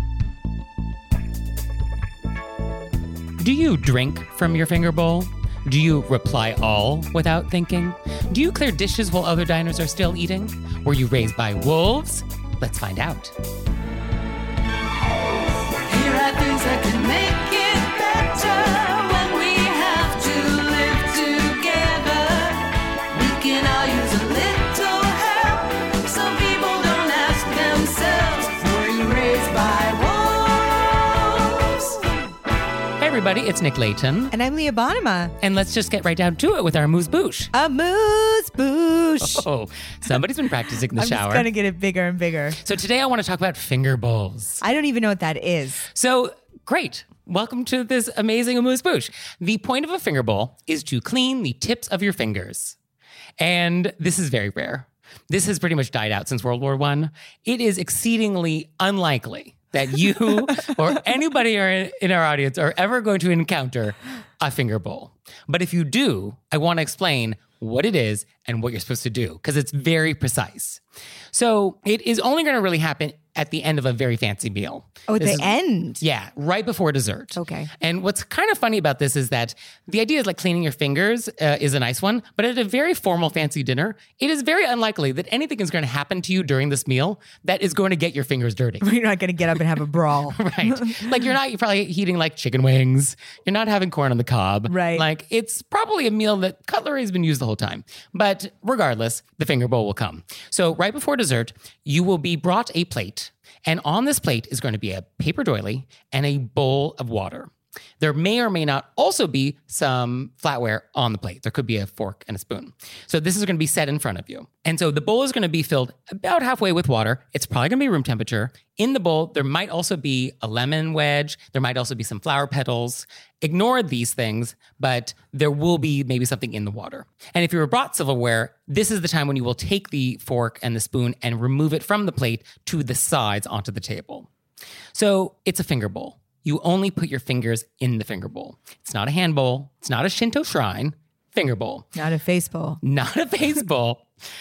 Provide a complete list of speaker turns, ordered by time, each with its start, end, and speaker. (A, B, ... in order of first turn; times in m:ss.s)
0:03.4-0:13.3 A
0:15.9-0:31.7 B
0:16.9-0:20.6 C
0:24.6-0:25.5 C
0:27.4-0:28.3 C
0:29.3-0:30.3 C
0:33.0-0:34.3 A
0:34.3-0:35.4 C
0:35.4-0:37.5 A
0:37.5-0:39.5 C
0:39.2-0:41.5 A
0:40.9-0:42.6 C
0:42.6-0:44.6 A
0:44.6-0:45.8 C
0:45.9-0:52.8 A
0:53.4-1:10.8 A
1:11.3-1:28.9 A
1:15.1-1:16.0 C
1:17.4-1:17.7 C
1:28.8-1:31.3 C
1:30.4-2:14.3 A
1:34.7-1:35.0 C
2:14.9-2:21.9 A
2:22.0-2:22.8 C
2:22.8-2:24.1 A